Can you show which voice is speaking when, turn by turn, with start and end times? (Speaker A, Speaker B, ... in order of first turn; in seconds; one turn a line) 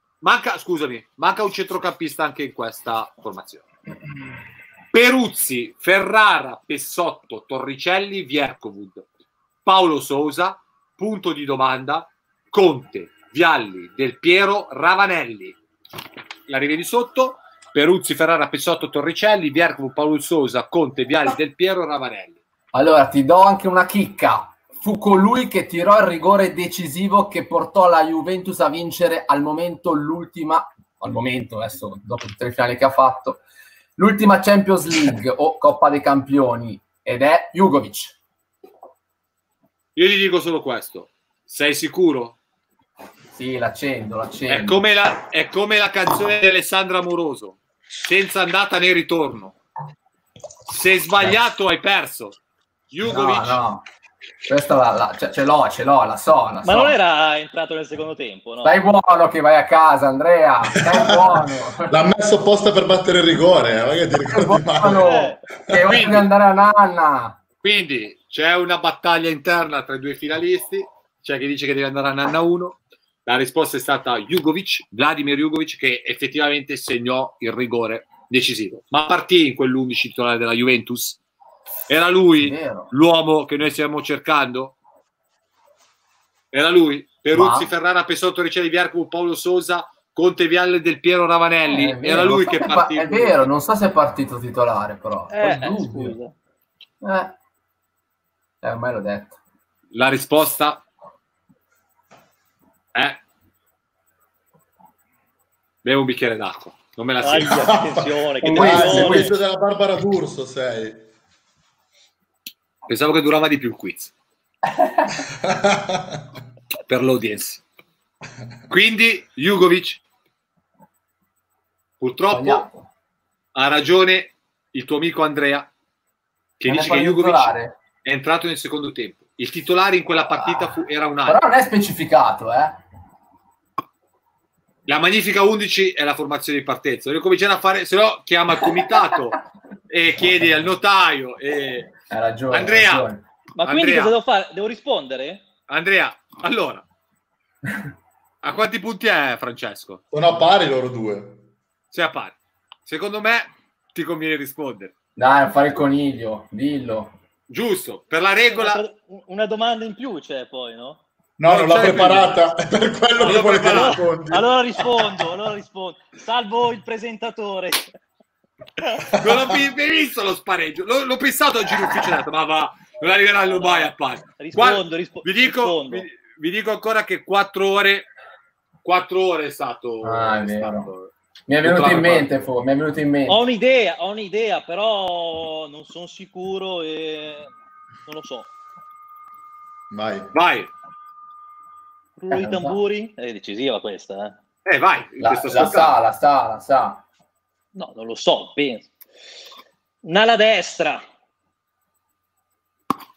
Speaker A: 0.2-3.6
Speaker A: 4.9-9.1
Speaker A: 9.6-15.6
Speaker A: 16.5-22.4
Speaker B: 22.7-33.4
Speaker B: 34.0-38.1
Speaker A: 40.0-42.4
Speaker B: 43.3-44.8
Speaker A: 44.5-49.5
Speaker A: 50.7-52.4
Speaker A: 52.9-53.6
Speaker B: 53.0-53.8
Speaker B: 54.5-57.0
Speaker C: 56.6-58.8
Speaker B: 58.6-61.9
Speaker D: 60.9-66.0
Speaker B: 64.2-67.4
Speaker C: 65.0-65.4
Speaker A: 65.8-66.3
Speaker A: 67.6-81.2
Speaker A: 81.9-84.8
Speaker B: 82.4-82.9
Speaker A: 86.5-93.5
Speaker B: 87.3-87.7
Speaker B: 91.7-96.2
Speaker C: 95.3-96.3
Speaker B: 97.0-97.3
Speaker B: 98.6-99.4
Speaker A: 99.9-100.8
Speaker A: 102.9-103.2
Speaker A: 105.8-107.7
Speaker C: 107.2-109.3
Speaker D: 107.4-111.0
Speaker B: 108.4-109.3
Speaker A: 112.9-114.1
Speaker B: 114.7-115.1
Speaker D: 115.4-116.2
Speaker A: 116.9-117.6
Speaker A: 118.7-120.0
Speaker A: 122.0-122.7
Speaker B: 122.3-122.9
Speaker A: 123.5-125.7
Speaker A: 126.6-131.4
Speaker B: 126.7-127.8
Speaker B: 130.4-130.7
Speaker B: 131.2-132.8
Speaker A: 134.9-141.9
Speaker B: 142.1-143.2
Speaker A: 142.5-143.1
Speaker C: 143.6-145.4
Speaker A: 143.6-144.1
Speaker A: 145.7-146.8
Speaker A: 148.4-150.0
Speaker D: 150.1-151.4
Speaker A: 151.9-154.9
Speaker B: 155.2-157.1
Speaker A: 157.5-158.8
Speaker C: 158.5-161.0
Speaker D: 161.4-164.5
Speaker A: 161.4-162.4
Speaker C: 163.2-167.9
Speaker A: 163.2-164.1
Speaker A: 169.2-178.1
Speaker C: 173.5-176.1
Speaker A: 178.8-181.1
Speaker B: 180.0-180.9
Speaker B: 181.5-183.4
Speaker A: 181.6-182.4
Speaker C: 183.3-187.5
Speaker C: 188.1-188.5
Speaker D: 189.9-190.3
Speaker A: 190.3-190.7
Speaker C: 192.2-194.4
Speaker B: 192.3-192.8
Speaker A: 194.6-196.0
Speaker B: 195.2-197.0
Speaker C: 197.7-198.9
Speaker C: 200.0-201.0